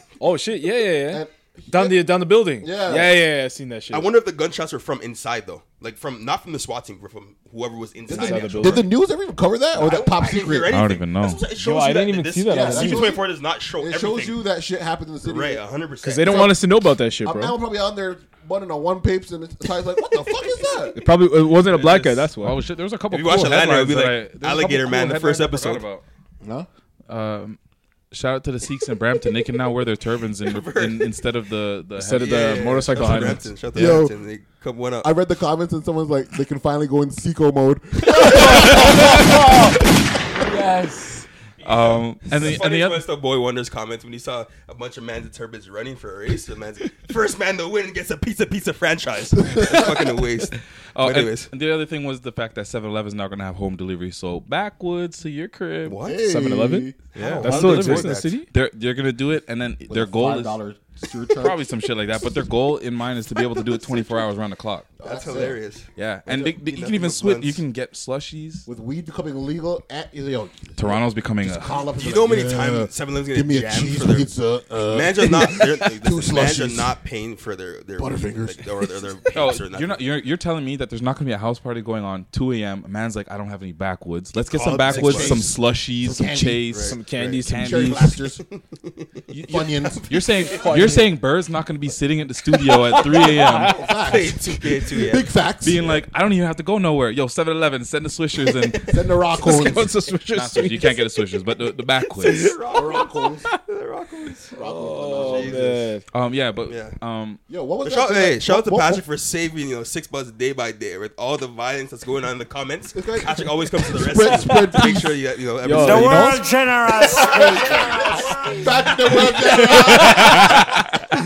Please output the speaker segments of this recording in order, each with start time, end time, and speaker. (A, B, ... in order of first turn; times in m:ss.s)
0:00.2-0:04.1 A
0:01.0-0:03.2 B
0:03.9-0:08.8 C
0:08.1-0:10.8 B
0:08.1-0:08.9 A
0:09.7-0:14.4 C
0:10.7-0:11.4 D
0:11.6-0:13.2 A
0:12.5-0:15.6 B
0:15.2-0:16.5 C
0:16.0-0:17.6 A
0:16.2-0:16.6 B
0:17.2-0:21.0 B
0:21.0-0:22.6 A
0:21.7-0:26.0 D
0:23.1-0:25.8 C
0:26.4-0:26.7 B
0:27.1-0:27.6 D
0:28.1-0:33.4 D
0:30.4-0:31.2 C
0:32.0-0:33.5 A
0:32.2-0:35.1 C
0:33.7-0:34.2 B
0:35.0-0:39.7 B
0:38.3-0:39.7 A
0:40.4-0:41.2 A
0:41.6-0:51.5 C
0:41.6-0:43.0 D
0:50.9-0:56.0 D
0:55.8-0:56.2 C
0:56.0-0:57.0 B
0:56.2-0:58.5 A
0:57.1-0:58.4 C
0:57.1-1:00.6 D
0:59.8-1:01.6 B
1:01.4-1:04.9 D
1:05.0-1:05.6 B
1:05.0-1:07.6 C
1:06.0-1:08.6 D
1:08.6-1:16.9 B
1:10.8-1:11.9 D
1:11.8-1:14.3 C
1:14.8-1:20.0 C
1:18.0-1:19.0 B
1:19.3-1:28.2 D
1:24.5-1:25.4 C
1:24.8-1:26.9 B
1:26.7-1:29.3 C
1:26.8-1:28.0 A
1:27.4-1:28.4 B
1:29.3-1:33.8 D
1:29.4-1:30.4 B
1:30.4-1:30.8 C
1:30.5-1:31.1 A
1:32.6-1:33.8 A
1:33.7-1:36.0 B
1:33.8-1:35.3 C
1:35.6-1:38.9 D
1:38.5-1:38.9 C
1:38.9-1:40.0 B
1:39.4-1:41.0 A
1:40.3-1:42.6 D
1:42.2-1:45.9 C
1:42.2-1:42.6 A
1:42.7-1:43.5 B
1:44.5-1:45.7 B
1:44.6-1:46.0 A
1:46.1-1:47.4 D
1:46.7-1:47.0 C
1:47.5-1:49.0 B
1:47.8-1:56.4 C
1:52.9-1:55.2 B
1:55.6-1:56.4 A
1:55.7-1:58.6 E
1:57.1-2:00.6 B
1:57.2-1:58.0 C
1:57.4-1:58.1 A
1:59.5-2:00.6 A